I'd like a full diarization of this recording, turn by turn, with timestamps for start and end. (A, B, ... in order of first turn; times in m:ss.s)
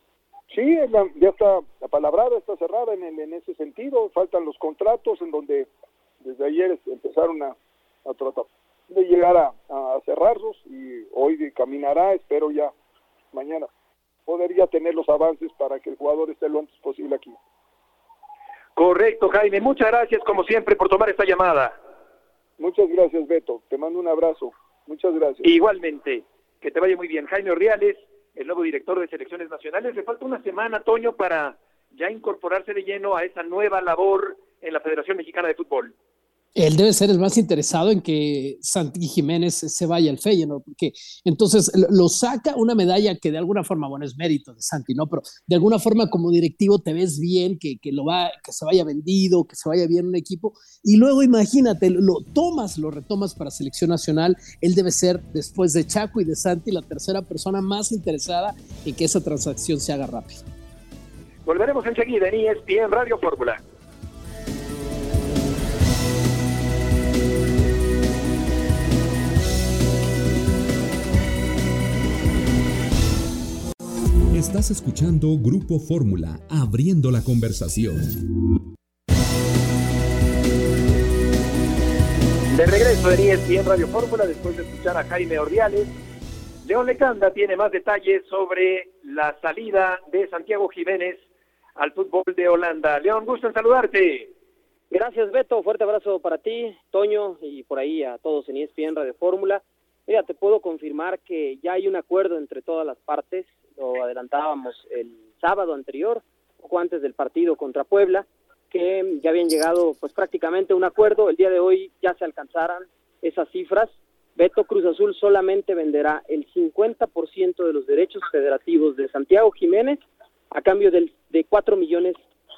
0:00.5-0:05.7 A
0:06.2-0:12.7 A
0:13.3-0:13.7 A
0:14.3-0:17.4 A
0:18.8-0:21.8 B
0:22.6-0:25.4 A
0:25.4-0:35.9 B
0:36.6-1:00.4 C
1:01.4-1:03.6 B
1:14.4-1:18.0 D
1:22.5-1:25.9 B
1:26.6-1:31.2 B
1:31.8-1:34.3 B
1:34.9-2:02.2 E